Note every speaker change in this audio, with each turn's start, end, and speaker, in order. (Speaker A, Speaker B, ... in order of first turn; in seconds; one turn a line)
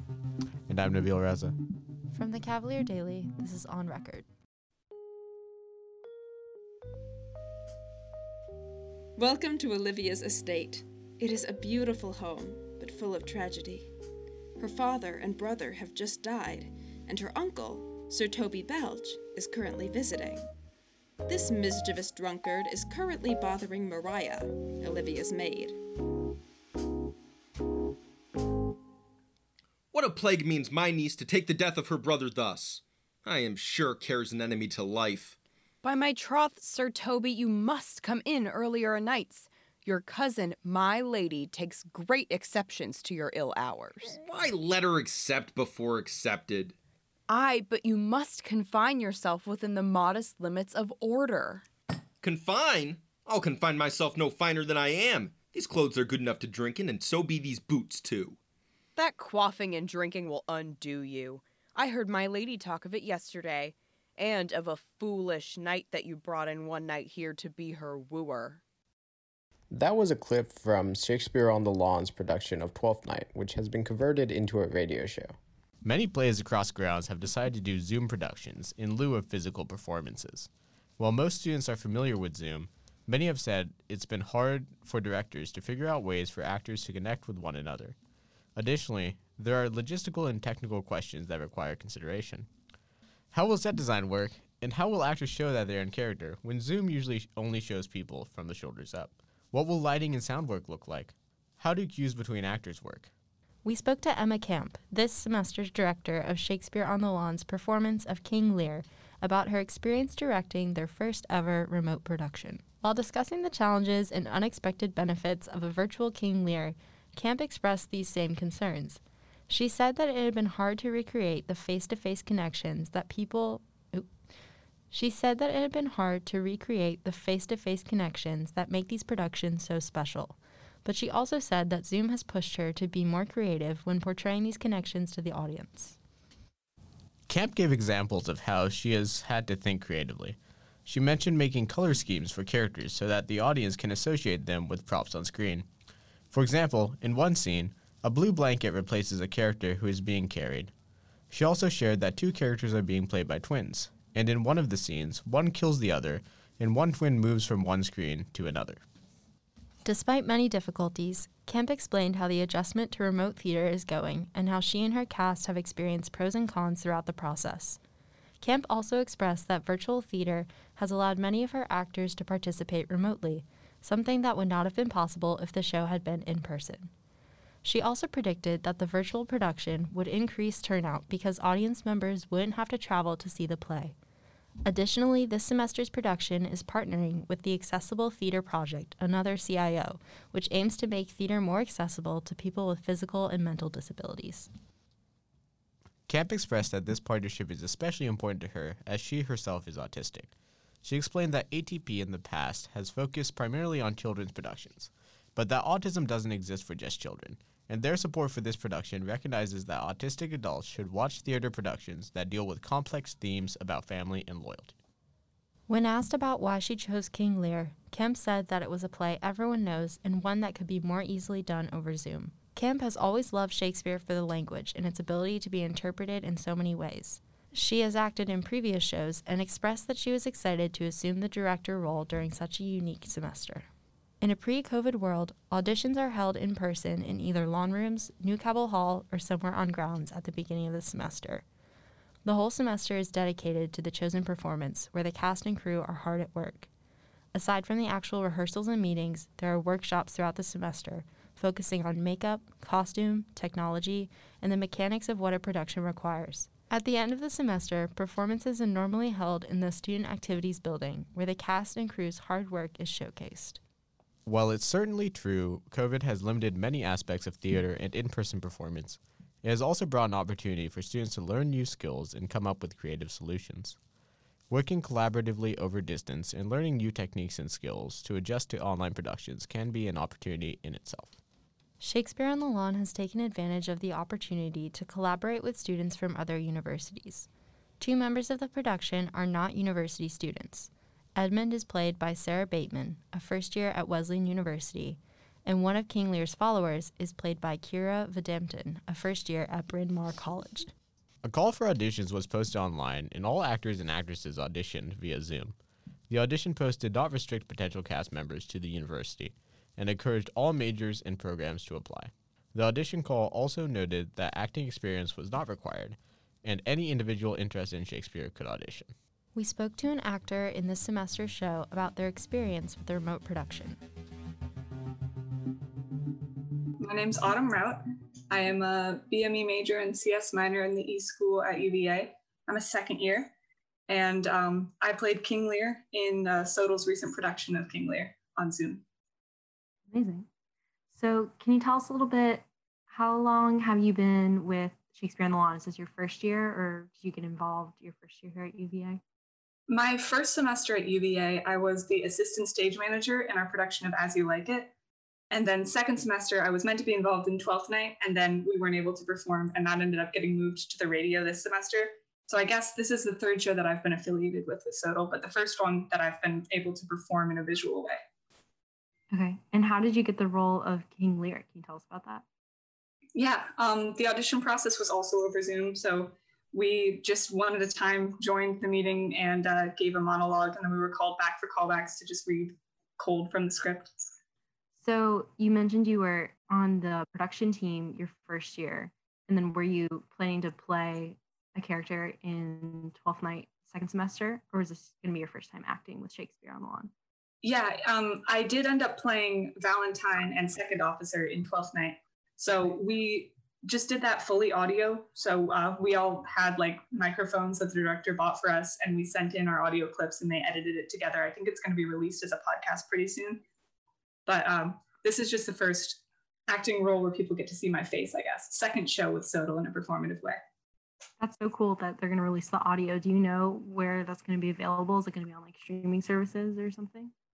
Speaker A: 0.7-1.6
Speaker B: 2.1-4.3
Speaker C: 9.2-13.9
Speaker C: 14.6-20.5
Speaker C: 21.2-25.8
Speaker D: 29.9-35.4
Speaker E: 35.8-44.1
Speaker D: 44.1-46.8
Speaker E: 47.3-51.7
Speaker D: 52.2-58.4
Speaker E: 59.0-68.6
Speaker F: 69.7-75.4
Speaker A: 75.8-88.0
Speaker A: 88.6-92.5
Speaker A: 93.3-103.1
Speaker B: 103.6-124.1
Speaker B: 124.9-136.0
Speaker A: 137.3-145.7
Speaker A: 146.3-150.7
Speaker A: 151.3-158.8
Speaker B: 159.8-167.8
Speaker B: 168.4-176.9
Speaker B: 177.6-183.9
Speaker B: 184.7-194.5
Speaker A: 196.1-200.3
Speaker A: 200.8-214.8
Speaker B: 215.7-233.7
Speaker B: 234.2-241.4
Speaker B: 242.2-246.7
Speaker B: 247.3-263.6
Speaker A: 264.2-273.8
Speaker A: 274.5-281.2
Speaker B: 281.8-287.3
Speaker B: 287.8-300.7
Speaker A: 301.2-305.6
Speaker A: 306.1-318.9
Speaker B: 319.4-323.8
Speaker G: 326.8-333.3
Speaker G: 333.9-338.8
Speaker H: 339.9-340.3
Speaker H: 340.9-349.0
Speaker G: 349.7-354.7
Speaker G: 355.3-368.0
Speaker H: 369.1-372.2
Speaker G: 373.1-383.9
Speaker H: 384.8-396.9
Speaker G: 397.4-413.4
Speaker G: 414.3-420.4
Speaker H: 421.2-427.1